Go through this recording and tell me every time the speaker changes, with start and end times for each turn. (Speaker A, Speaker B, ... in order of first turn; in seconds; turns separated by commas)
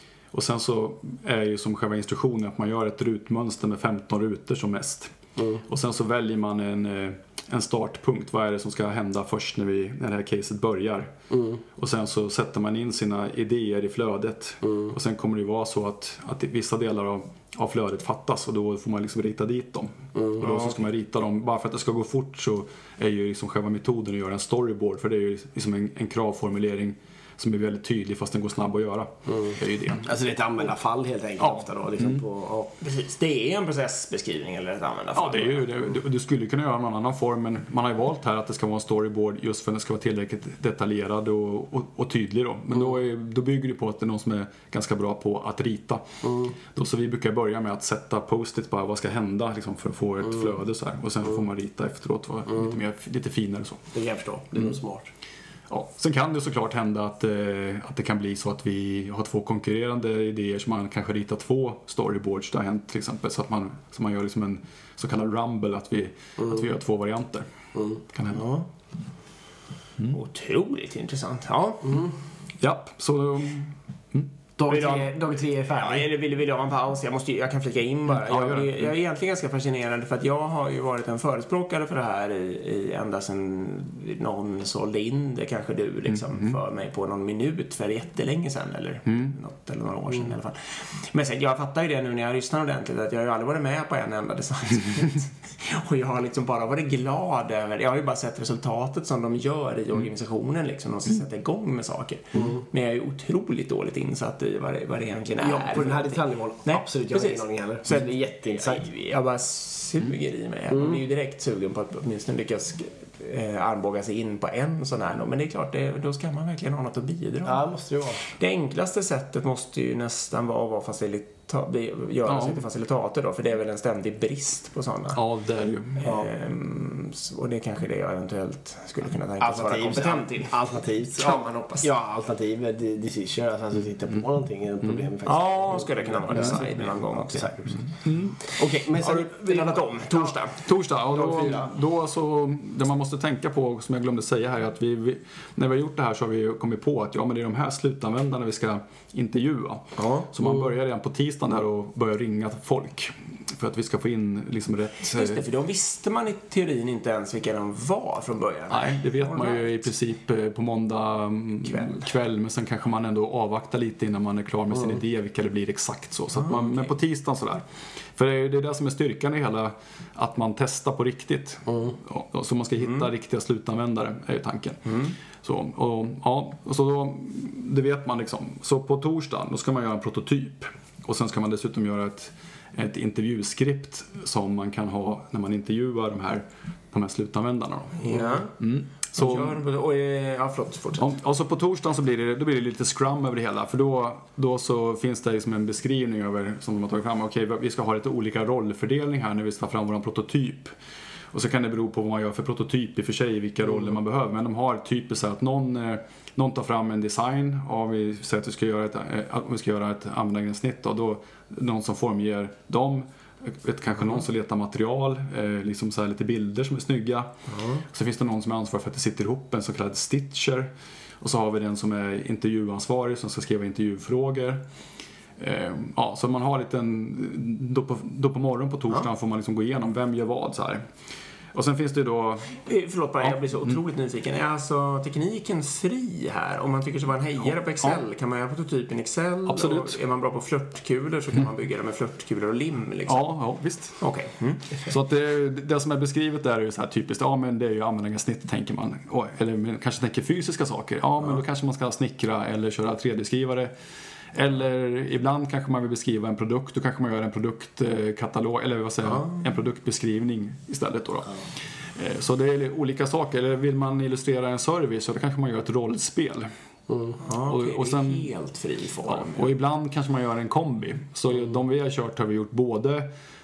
Speaker A: 0.3-5.1, Speaker A: 5.6-11.1, Speaker B: 11.3-11.6, Speaker A: 11.7-30.1, Speaker B: 14.7-14.9, Speaker B: 20.1-20.7, Speaker B: 30.0-32.7, Speaker A: 31.4-32.2, Speaker C: 32.8-35.7, Speaker A: 35.1-46.0, Speaker B: 46.2-46.5, Speaker A: 46.7-53.9, Speaker B: 53.9-55.1, Speaker A: 55.7-67.5, Speaker A: 68.1-68.4, Speaker C: 68.3-68.7, Speaker C: 70.1-72.1, Speaker B: 71.9-72.1, Speaker A: 72.6-74.3, Speaker B: 74.6-76.1, Speaker C: 74.7-117.6, Speaker A: 78.1-78.9, Speaker A: 86.1-86.6, Speaker A: 89.1-89.3, Speaker B: 102.4-102.6, Speaker B: 105.4-108.9, Speaker B: 110.7-111.0, Speaker B: 117.4-118.2, Speaker C: 118.2-125.2, Speaker A: 122.2-122.6, Speaker A: 125.1-126.0, Speaker C: 126.0-130.6, Speaker B: 126.0-126.3, Speaker B: 129.4-140.4, Speaker C: 131.2-131.9, Speaker C: 135.2-137.9, Speaker A: 136.3-136.9, Speaker A: 138.0-138.4, Speaker C: 138.6-140.6, Speaker A: 140.6-155.4, Speaker B: 141.1-141.5, Speaker C: 141.3-141.6, Speaker C: 150.0-150.3, Speaker C: 155.1-159.7, Speaker A: 158.7-167.6, Speaker C: 161.6-162.1, Speaker C: 166.4-166.9, Speaker A: 168.2-189.6, Speaker B: 171.7-171.9, Speaker C: 174.9-175.1, Speaker C: 188.0-188.6, Speaker C: 189.1-191.1, Speaker A: 191.0-200.7, Speaker A: 201.3-217.3, Speaker C: 217.5-217.8, Speaker A: 217.9-224.6, Speaker A: 225.4-230.8, Speaker A: 231.5-232.6, Speaker C: 232.6-243.3, Speaker A: 233.2-233.7, Speaker A: 239.5-240.0, Speaker A: 243.1-244.0, Speaker C: 244.0-244.9, Speaker A: 244.9-253.7, Speaker A: 254.3-266.5, Speaker C: 259.1-259.4, Speaker B: 266.9-267.2, Speaker C: 267.2-269.5, Speaker A: 267.4-268.3, Speaker A: 269.0-273.1